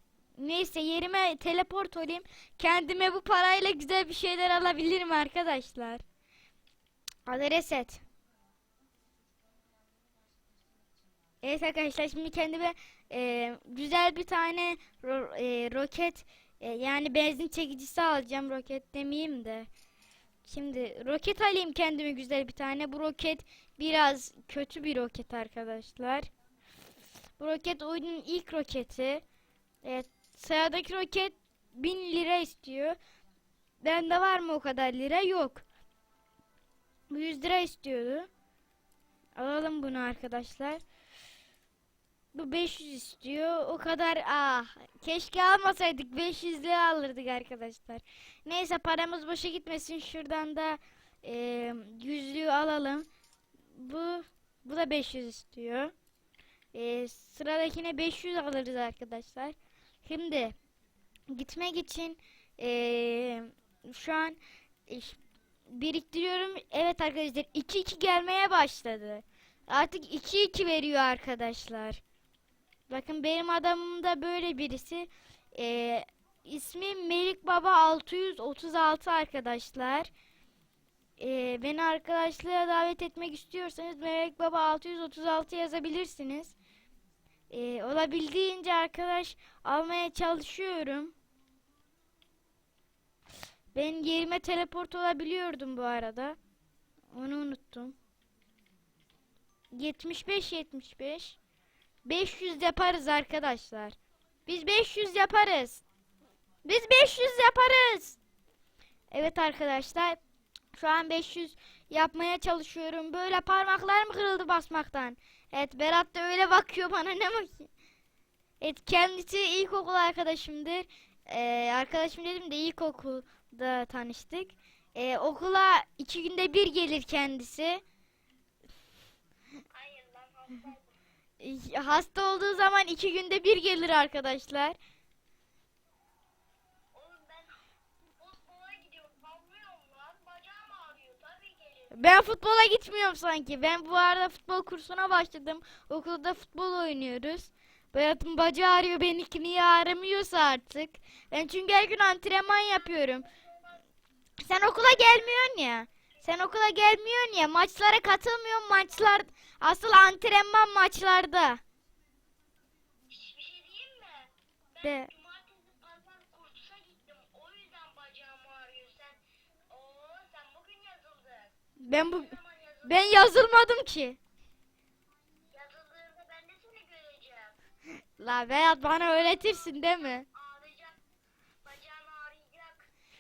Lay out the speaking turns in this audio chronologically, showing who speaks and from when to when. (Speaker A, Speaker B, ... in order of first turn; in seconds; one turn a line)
Speaker A: 0.4-6.0
Speaker A: 7.3-8.0
Speaker A: 11.4-19.7
Speaker A: 20.4-26.3
Speaker A: 27.4-29.2
Speaker A: 29.8-33.0
Speaker A: 33.8-35.6
Speaker A: 37.1-38.3
Speaker A: 39.4-40.8
Speaker A: 42.3-53.1
Speaker A: 53.7-55.9
Speaker A: 56.7-60.5
Speaker A: 61.3-72.0
Speaker A: 72.9-80.1
Speaker A: 81.2-86.6
Speaker A: 87.5-91.2
Speaker A: 93.7-96.4
Speaker A: 97.1-98.0
Speaker A: 99.7-101.4
Speaker A: 102.0-105.8
Speaker A: 106.7-108.2
Speaker A: 109.1-110.2
Speaker A: 110.7-117.7
Speaker A: 118.6-127.8
Speaker B: 129.7-131.0
Speaker A: 131.4-134.8
Speaker B: 136.9-137.6
Speaker B: 138.2-141.9
Speaker A: 141.9-153.3
Speaker B: 153.0-153.8
Speaker A: 154.4-161.6
Speaker B: 154.8-155.5
Speaker B: 163.1-173.2
Speaker A: 164.8-165.1
Speaker A: 171.8-174.2
Speaker B: 175.5-177.6
Speaker A: 178.2-180.3
Speaker B: 179.3-181.0
Speaker B: 181.6-182.9